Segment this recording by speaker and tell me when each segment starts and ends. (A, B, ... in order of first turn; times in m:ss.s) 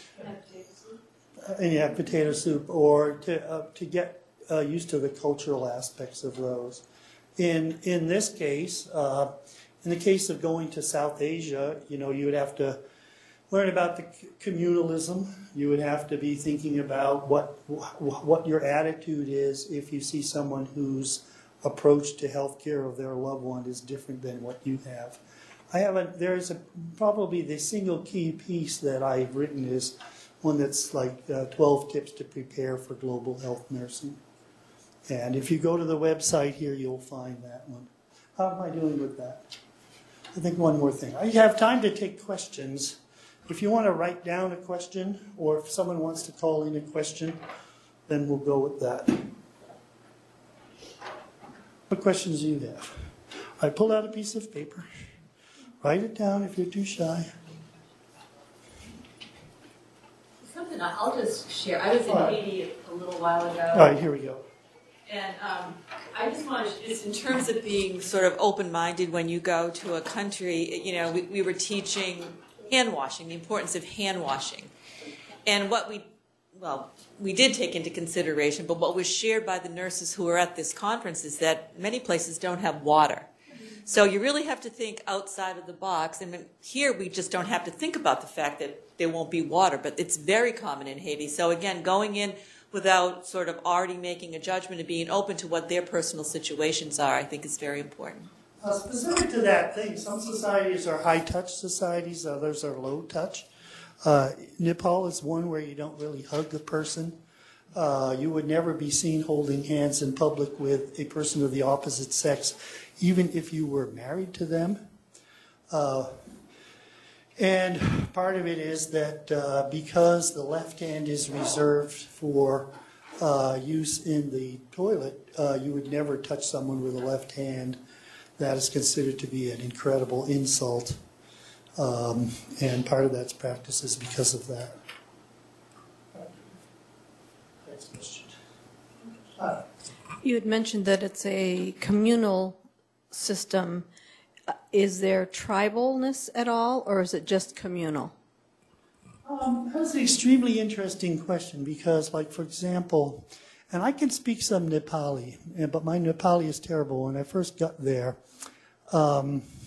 0:01.4-0:06.8 A
0:07.4-0:09.3 A
0:09.8-0:12.8 A
0:13.5-0:25.2 A
0:25.7-0:34.2 A
0:35.1-0:39.5 A
0:40.3-0:47.4 A
0:48.1-0:49.3 A
0:51.9-0:53.1 A
0:53.6-0:54.9 A
0:55.8-0:57.3 A
1:00.4-1:03.9 B
1:02.0-1:02.4 A
1:03.7-1:04.4 A
1:05.1-1:14.7 B
1:15.4-1:23.3 B
1:23.8-1:38.3 B
1:38.6-1:43.5 A
1:44.0-1:47.2 A
1:47.7-1:54.8 A
1:55.7-1:56.2 A
1:57.4-2:07.8 A
2:08.4-2:11.0 A
2:11.8-2:14.8 A
2:17.6-2:18.3 A
2:20.2-2:23.9 C
2:24.7-2:28.1 C
2:29.2-2:38.2 A
2:38.9-2:39.5 A